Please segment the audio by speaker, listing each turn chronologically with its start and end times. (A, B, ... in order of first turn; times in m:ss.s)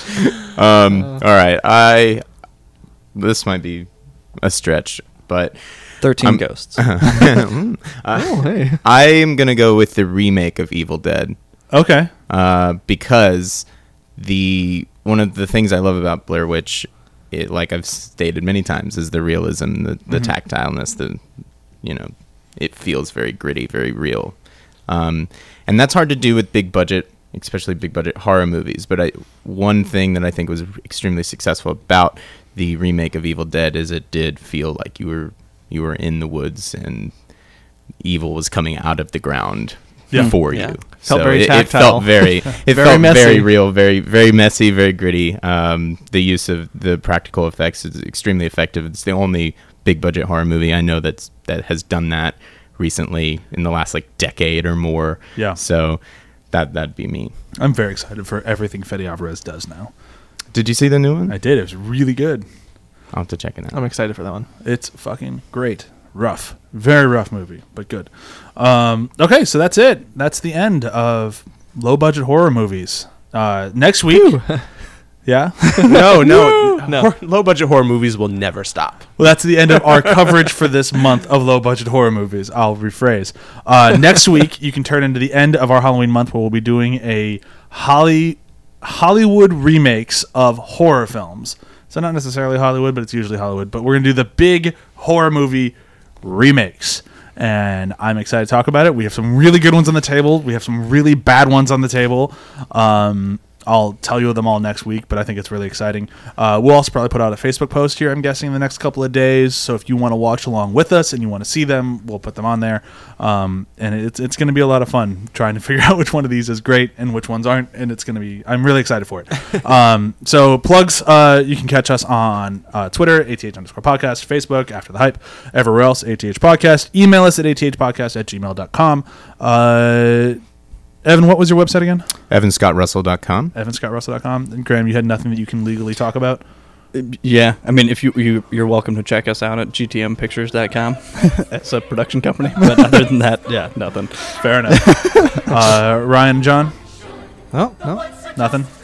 0:00.4-0:02.2 A
0:03.1-0:11.4 A
0:06.0-0:07.2 B
0:08.1-0:08.8 C
0:11.7-0:12.1 D
0:12.3-0:21.2 A
0:21.8-0:24.3 A
0:24.9-0:37.1 A
0:38.0-0:56.0 A
0:40.5-0:43.5 C
0:56.5-0:57.3 A
0:57.6-0:59.9 D
1:00.5-1:01.4 A
1:01.3-1:02.4 D
1:03.1-1:03.8 A
1:03.7-1:04.5 C
1:04.6-1:14.5 D
1:14.1-1:14.6 C
1:15.2-1:16.3 D
1:15.8-1:19.1 E
1:15.8-1:17.1 C
1:19.2-2:10.4 D
2:11.0-2:12.1 D
2:12.3-2:13.5 A
2:13.5-2:16.4 D
2:16.9-2:25.5 B
2:24.4-2:26.7 D
2:27.5-2:28.0 C
2:28.4-2:28.7 D